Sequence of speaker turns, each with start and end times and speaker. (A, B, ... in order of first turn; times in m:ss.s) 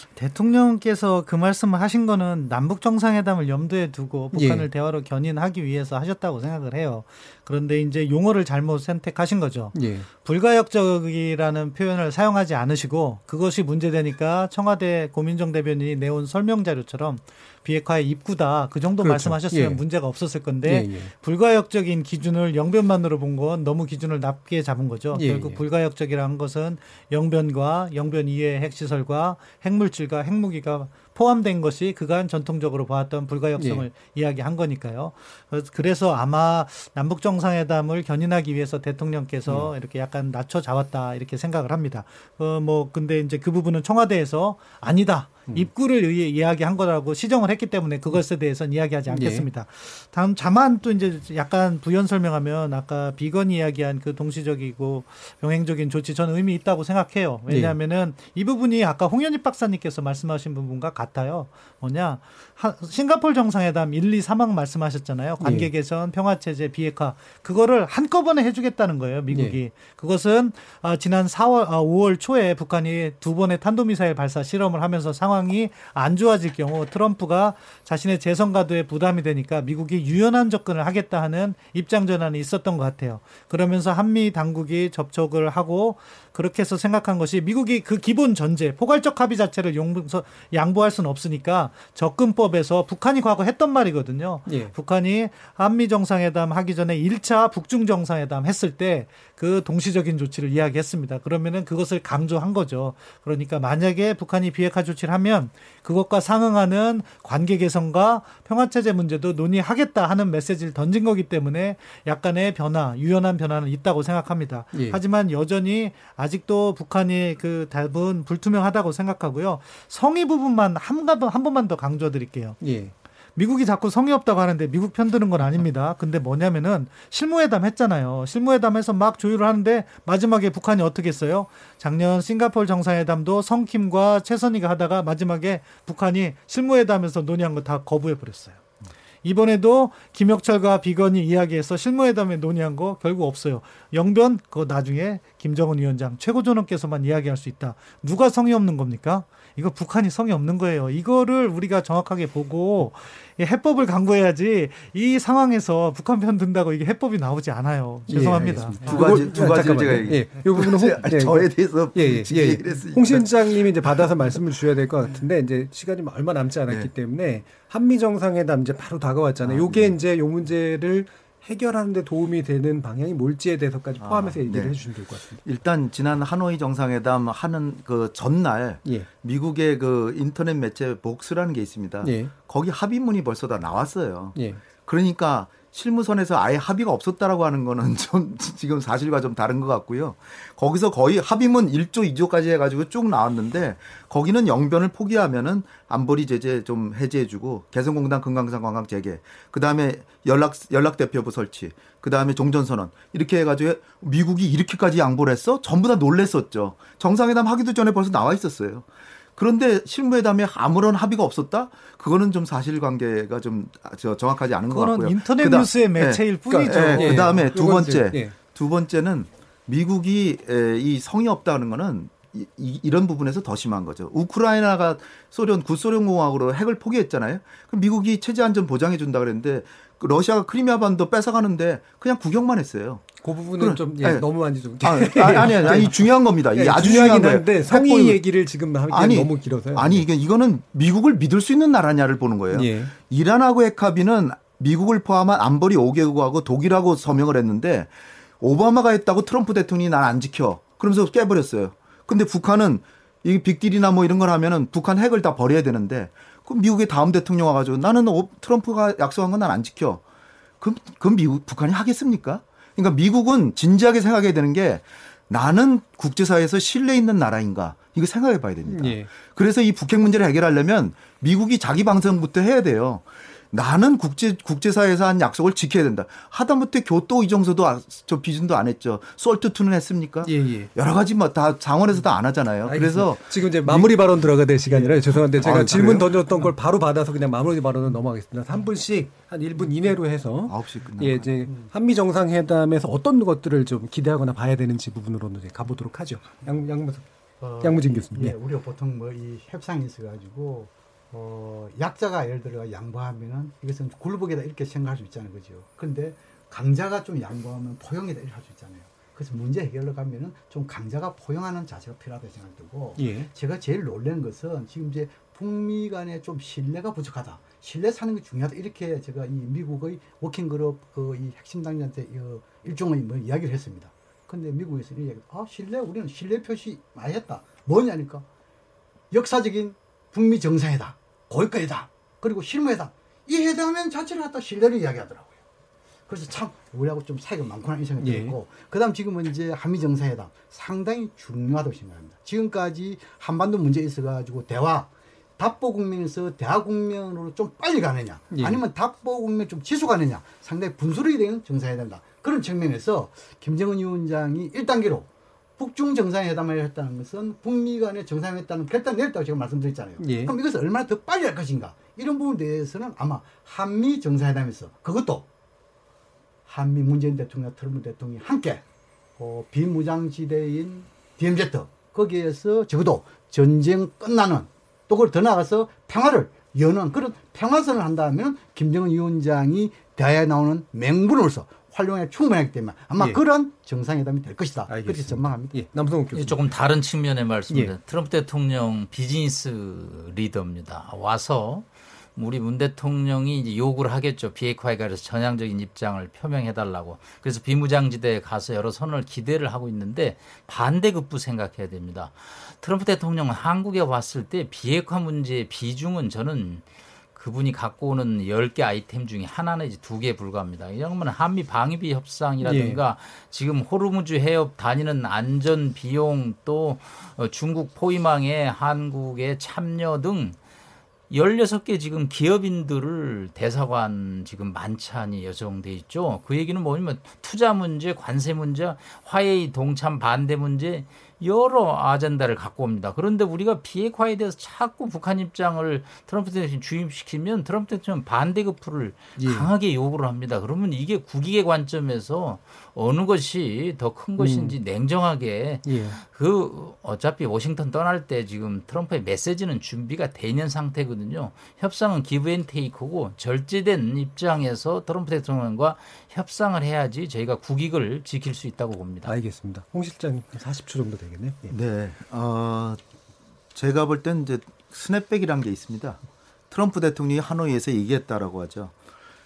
0:00.2-2:02.6 A
0:04.3-0:04.7 B
0:09.7-0:10.1 B
0:19.0-0:19.8 B
0:20.6-0:21.1 B
0:25.1-0:25.6 B
0:33.6-0:33.8 B
0:39.5-0:39.7 B
0:49.1-0:49.5 B
0:57.5-0:57.7 B
1:05.4-1:05.7 B
1:09.3-1:09.6 B
1:34.5-1:34.7 B
1:54.7-1:55.0 B
2:02.6-2:02.9 B
2:03.4-2:18.6 A
2:19.2-2:39.3 A
2:38.1-2:55.4 B
2:38.8-2:44.3 C
2:49.4-2:50.0 C
2:54.0-2:54.8 C
2:55.4-4:20.0 C
2:58.8-2:59.1 B
3:02.0-3:02.3 B
3:04.4-3:04.6 B
3:34.7-3:37.4 A
3:36.5-3:38.4 B
3:53.2-4:00.1 B
4:02.5-4:02.9 B
4:20.6-4:46.5 C
4:28.7-4:29.1 B
4:40.2-4:40.7 B
4:42.6-4:57.0 B
4:50.5-4:51.4 C
4:57.4-5:28.2 D
4:57.6-4:58.4 B
5:13.0-5:13.3 B
5:29.1-5:35.3 D
5:36.1-5:55.1 D
5:38.0-5:38.3 B
5:48.3-5:48.6 B
5:55.6-6:05.2 D
6:00.0-6:00.3 B
6:06.5-6:08.6 D
6:09.2-6:25.5 D
6:23.0-6:23.2 B
6:24.7-6:26.4 B
6:26.1-7:00.4 E
6:52.4-6:52.8 B
7:01.1-7:39.1 E
7:19.2-7:19.5 B
7:24.2-7:24.6 B
7:25.6-7:26.0 B
7:39.0-7:41.5 B
7:41.5-7:42.8 C
7:43.5-7:48.7 C